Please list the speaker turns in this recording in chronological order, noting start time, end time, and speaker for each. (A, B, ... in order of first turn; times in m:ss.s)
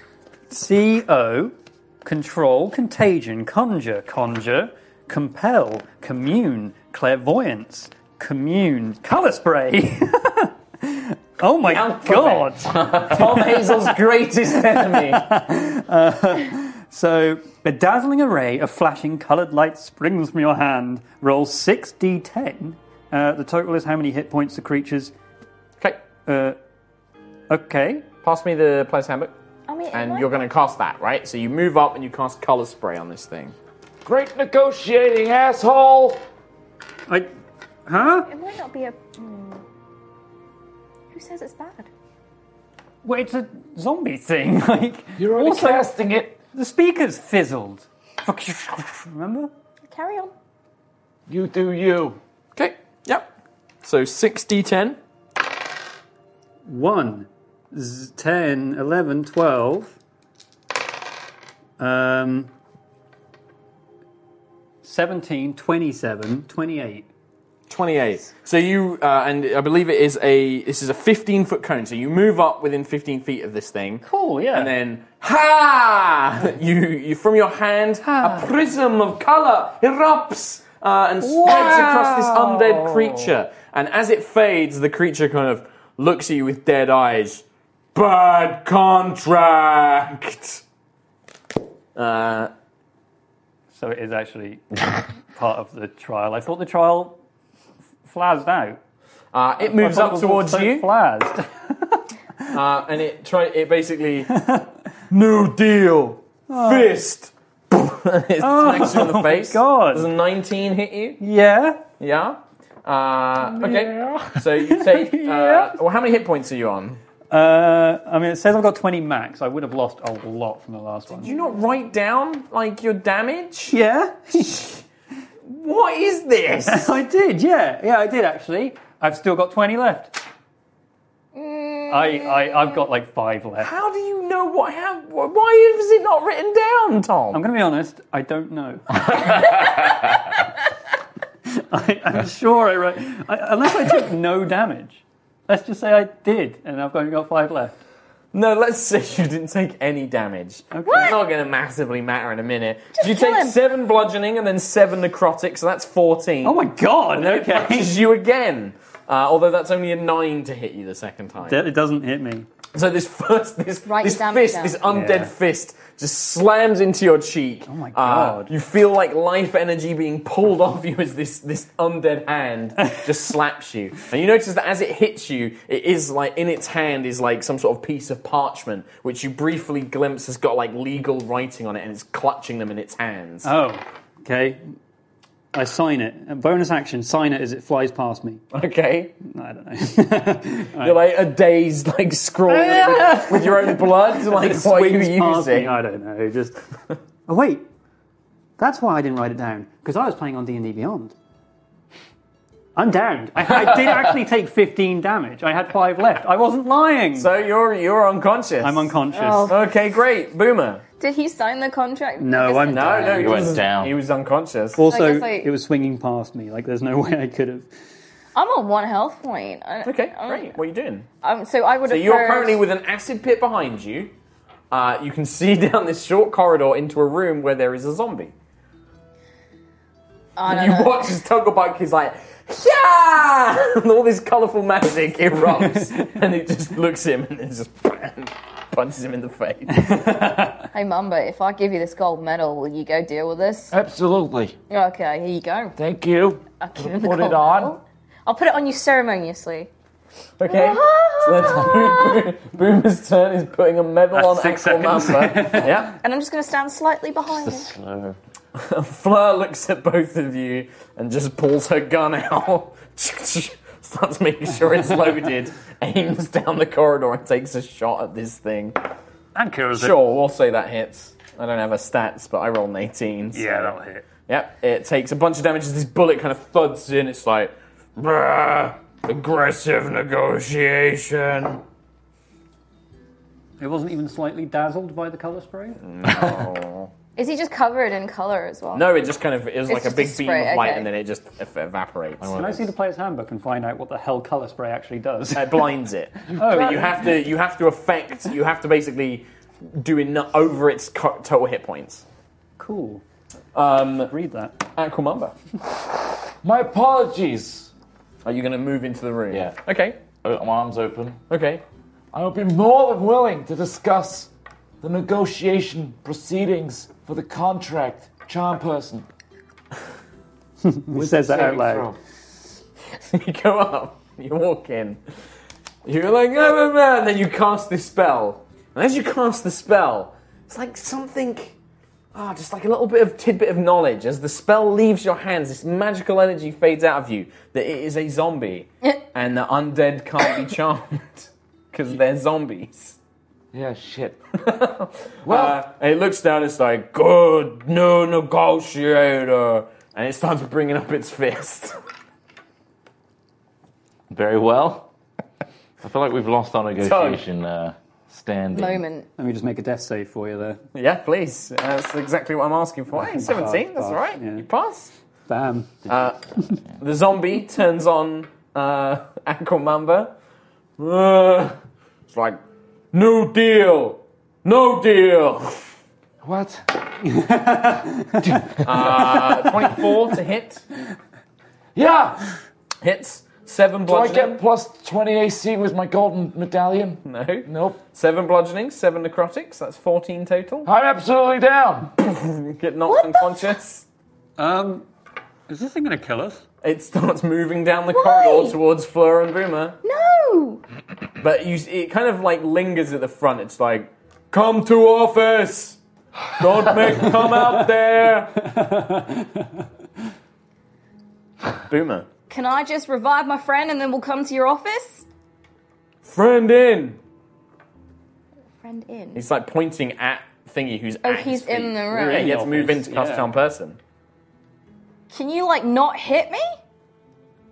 0:00.5-0:14.0 A
0:11.6-0:15.3 B
0:14.8-0:25.1 A
0:26.3-0:26.6 A
0:27.5-0:28.1 A
0:28.2-0:29.3 B
0:29.7-0:30.3 C
0:29.9-0:33.6 B
0:34.0-0:36.2 D
0:37.9-0:38.3 A
0:38.2-0:39.6 C
0:41.1-0:41.9 C
0:43.0-0:45.9 A
0:45.2-0:46.4 D
0:46.5-0:49.5 A
0:49.8-0:50.3 C
0:51.3-0:52.2 D
0:52.6-0:53.3 B
0:53.8-0:55.0 B
0:56.7-1:00.0 A
1:01.8-1:02.5 A
1:04.8-1:07.1 A
1:07.7-1:27.4 B
1:14.0-1:14.7 A
1:18.0-1:18.5 A
1:21.2-1:23.4 A
1:28.0-1:30.6 B
1:32.0-1:32.5 B
1:33.7-1:37.2 A
1:38.0-1:38.8 A
1:39.3-1:40.9 B
1:39.6-1:42.1 A
1:42.5-1:44.4 B
1:44.3-1:44.7 A
1:45.1-1:51.2 B
1:46.5-1:46.9 A
1:48.4-1:50.1 A
1:51.2-1:51.8 A
1:52.0-1:57.0 B
1:53.7-1:54.2 D
1:54.6-1:55.8 A
1:57.3-2:01.4 A
2:01.1-2:03.8 B
2:03.7-2:04.8 A
2:05.5-2:07.0 B
2:06.7-2:10.2 A
2:11.4-2:12.8 C
2:11.9-2:13.7 A
2:13.6-2:17.4 B
2:17.3-2:19.7 A
2:21.5-2:27.8 A
2:28.3-2:41.6 B
2:30.7-2:31.2 A
2:30.9-2:31.1 C
2:33.0-2:33.6 C
2:36.4-2:38.0 A
2:41.4-2:42.5 A
2:42.7-3:03.5 B
2:43.9-2:44.8 C
2:44.9-2:45.3 A
2:47.7-2:48.5 A
2:52.8-2:53.1 A
3:03.4-3:04.6 A
3:05.5-3:08.4 A
3:08.5-3:09.2 B
3:09.2-3:11.0 A
3:10.8-3:15.8 B
3:12.5-3:16.6 A
3:17.3-3:17.7 A
3:18.6-3:21.2 A
3:22.8-3:27.3 A
3:27.2-3:30.8 B
3:28.6-3:29.6 A
3:29.1-3:29.6 C
3:31.0-3:33.3 C
3:32.2-3:33.4 A
3:32.7-3:34.9 B
3:33.2-3:34.0 E
3:34.8-3:37.7 A
3:34.9-3:35.5 C
3:38.4-3:40.6 C
3:39.8-3:41.1 B
3:41.2-3:42.6 C
3:41.9-3:44.1 B
3:44.7-3:48.3 B
3:50.4-3:51.2 C
3:50.5-4:00.1 B
3:59.7-4:00.7 A
4:00.7-4:03.7 C
4:03.7-4:04.6 D
4:04.7-4:05.8 C
4:05.8-4:07.8 D
4:06.6-4:09.7 C
4:10.4-4:16.0 B
4:10.5-4:12.3 C
4:14.1-4:15.9 A
4:15.9-4:17.7 C
4:17.4-4:18.2 E
4:18.6-4:28.8 B
4:29.4-4:30.0 A
4:29.8-4:33.8 B
4:33.3-4:34.1 A
4:34.3-4:41.6 B
4:43.6-4:45.8 A
4:45.8-4:46.9 B
4:47.2-4:48.9 C
4:48.7-4:52.3 B
4:49.7-4:50.9 C
4:52.2-4:52.7 E
4:52.3-4:55.7 A
4:55.3-5:02.0 B
4:56.3-4:57.1 A
5:02.6-5:03.0 A
5:03.5-5:04.1 B
5:04.1-5:04.6 A
5:04.8-5:05.3 B
5:06.4-5:07.7 D
5:08.2-5:10.0 B
5:09.3-5:09.6 E
5:10.2-5:11.2 E
5:11.3-5:11.6 B
5:12.1-5:14.3 D
5:14.8-5:19.1 D
5:20.6-5:21.9 A
5:20.9-5:22.0 D
5:23.0-5:25.0 B
5:25.8-5:31.6 B
5:32.1-5:43.0 B
5:43.5-5:44.2 D
5:44.4-5:51.8 B
5:45.2-5:45.6 D
5:54.1-5:54.9 E
5:55.8-5:58.8 E
5:56.8-5:57.2 B
5:58.5-5:59.1 C
5:59.2-6:00.6 A
6:00.7-6:04.9 B
6:02.9-6:04.5 A
6:05.3-6:05.9 A
6:05.9-6:06.2 B
6:06.8-6:10.1 B
6:10.8-6:11.6 B
6:12.1-6:12.4 B
6:12.9-6:15.6 B
6:16.2-6:16.6 D
6:17.0-6:18.6 A
6:18.2-6:19.5 D
6:18.6-6:20.6 B
6:21.8-6:22.3 D
6:22.8-6:24.4 B
6:23.9-6:27.8 D
6:27.0-6:30.7 B
6:30.6-6:31.9 D
6:32.0-6:33.8 B
6:32.9-6:33.5 C
6:34.4-6:34.9 A
6:35.5-6:36.4 A
6:36.6-6:39.8 B
6:37.9-6:38.6 C
6:39.8-6:40.6 C
6:41.2-6:45.8 B
6:46.4-6:48.5 B
6:48.4-6:49.7 A
6:51.7-6:52.1 B
6:52.3-6:55.1 C
6:56.0-6:57.0 B
6:58.6-6:59.2 C
6:59.2-7:03.8 B
7:01.0-7:02.3 C
7:01.9-7:03.3 A
7:05.1-7:06.6 C